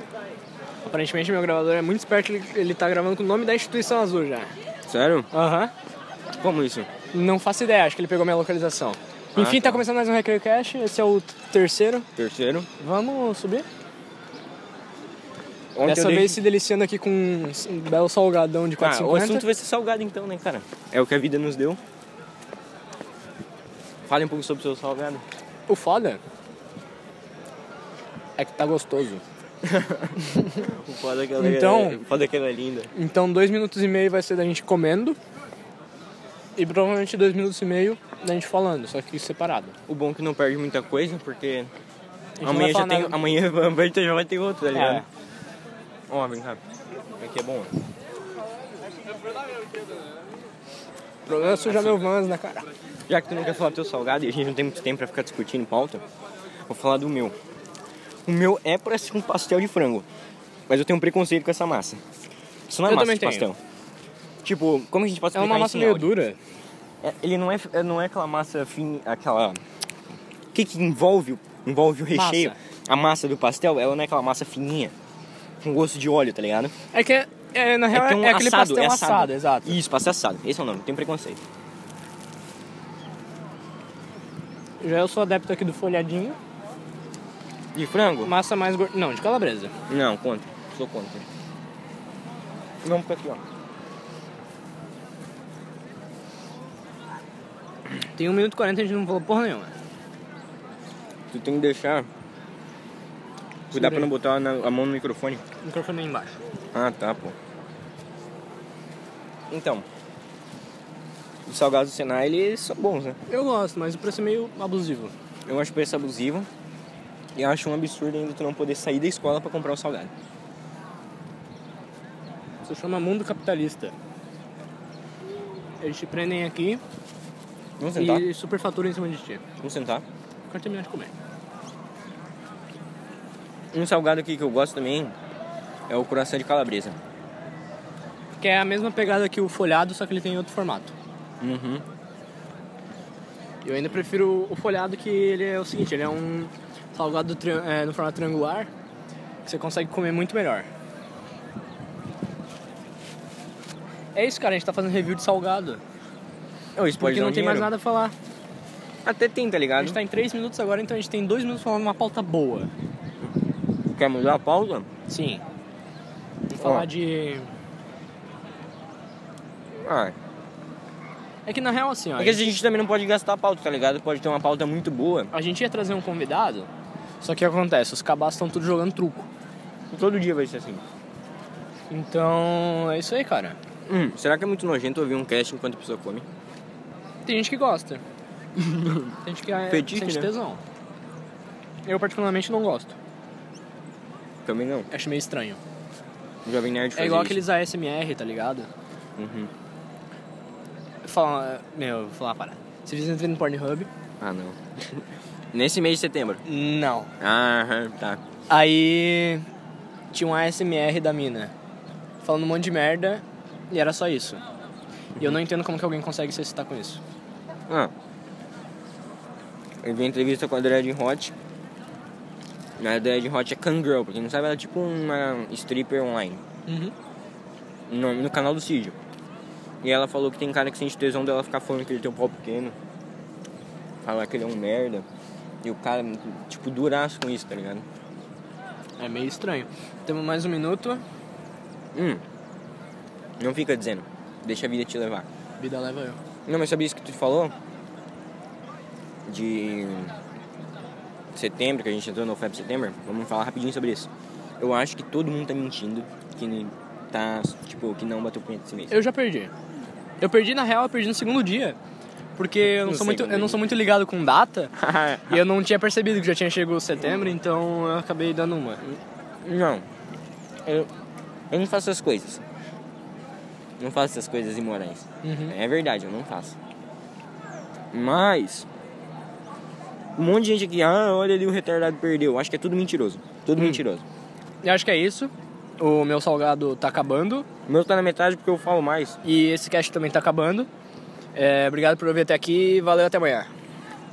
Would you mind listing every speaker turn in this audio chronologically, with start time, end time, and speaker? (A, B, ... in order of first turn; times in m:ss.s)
0:00.8-0:04.5 A
0:04.9-0:05.3 B
0:05.3-0:05.7 A
0:06.4-0:06.9 B
0:07.1-0:12.0 A
0:09.3-0:09.8 B
0:12.2-0:12.7 B
0:12.8-0:13.7 A
0:15.7-0:16.4 B
0:15.8-0:19.4 A
0:18.8-0:21.8 B
0:24.1-0:25.2 B
0:25.7-0:26.2 A
0:28.4-0:29.2 A
0:29.6-0:32.9 B
0:30.2-0:30.6 A
0:31.4-0:32.0 A
0:32.9-0:35.2 A
0:36.6-0:39.8 A
0:39.9-0:41.7 B
0:42.4-0:43.2 A
0:42.4-0:45.0 B
0:44.7-0:45.0 A
0:46.1-0:46.6 B
0:47.2-0:47.7 B
0:51.2-0:52.7 A
0:51.4-0:52.0 B
0:53.1-0:56.0 B
0:56.7-0:57.3 B
0:58.2-1:00.1 B
1:00.7-1:02.0 B
1:02.7-1:03.6 B
1:02.8-1:03.5 A
1:04.4-1:06.1 B
1:05.3-1:06.4 A
1:07.0-1:09.6 B
1:10.5-1:14.9 B
1:12.1-1:12.6 A
1:15.6-1:16.7 B
1:16.9-1:19.8 A
1:17.9-1:21.4 B
1:24.8-1:26.4 A
1:27.7-1:28.3 B
1:28.2-1:29.7 A
1:29.9-1:31.2 B
1:32.8-1:33.4 B
1:38.1-1:39.7 A
1:41.3-1:42.1 B
1:43.7-1:44.1 A
1:43.7-1:45.4 B
1:45.6-1:46.4 A
1:46.7-1:47.3 B
1:49.5-1:49.8 B
1:51.4-1:53.2 B
1:53.3-1:55.1 A
1:55.5-1:56.5 B
1:57.4-2:00.1 B
2:02.6-2:03.9 A
2:05.8-2:06.8 A
2:07.8-2:08.3 B
2:07.9-2:09.4 A
2:09.6-2:10.0 B
2:10.5-2:11.1 A
2:13.7-2:15.1 B
2:15.9-2:17.0 B
2:18.4-2:20.9 A
2:21.4-2:21.8 B
2:23.6-2:28.7 A
2:29.4-2:30.7 A
2:34.1-2:35.8 A
2:36.8-2:37.7 B
2:37.0-2:38.1 A
2:39.0-2:40.0 B
2:39.8-2:42.7 A
2:43.9-2:44.9 B
2:45.1-2:45.4 A
2:46.5-2:47.5 A
2:46.6-2:46.9 B
2:49.8-2:50.1 B
2:51.4-2:52.4 A
2:52.2-2:55.3 B
2:55.3-2:56.7 A
2:57.2-2:59.3 A
2:59.9-3:00.8 B
3:01.9-3:03.6 A
3:03.9-3:06.2 B
3:07.2-3:08.0 A
3:08.6-3:09.2 B
3:09.2-3:10.6 A
3:09.7-3:10.3 B
3:11.8-3:12.9 A
3:14.4-3:14.9 B
3:14.9-3:15.6 A
3:16.4-3:17.4 B
3:17.0-3:18.7 A
3:19.2-3:19.5 B
3:21.0-3:23.9 A
3:24.2-3:25.0 B
3:25.5-3:26.4 B
3:26.4-3:27.1 A
3:27.2-3:28.2 B
3:28.5-3:29.4 A
3:30.1-3:31.5 A
3:32.2-3:34.4 A
3:35.2-3:37.0 A
3:39.8-3:41.3 B
3:42.8-3:46.4 B
3:46.7-3:46.9 A
3:47.9-3:49.0 B
3:49.8-3:52.8 B
3:54.0-3:55.0 B
3:55.6-3:57.8 B
3:59.0-4:01.0 A
4:01.9-4:02.2 B
4:03.4-4:05.2 B
4:05.6-4:06.2 A
4:06.5-4:07.5 B
4:09.3-4:10.1 B
4:11.3-4:14.1 B
4:14.6-4:19.0 B
4:18.9-4:19.5 A
4:20.2-4:21.8 A
4:22.4-4:24.7 A
4:22.6-4:23.7 B
4:24.8-4:25.4 B
4:25.3-4:28.8 A
4:29.4-4:29.8 B
4:30.6-4:30.9 B
4:31.5-4:32.4 B
4:33.8-4:36.5 B
4:35.2-4:35.5 A
4:37.9-4:38.6 B
4:40.2-4:44.0 B
4:43.6-4:43.8 A
4:44.6-4:47.4 A
4:47.7-4:49.2 B
4:49.2-4:50.7 A
4:51.3-4:53.5 A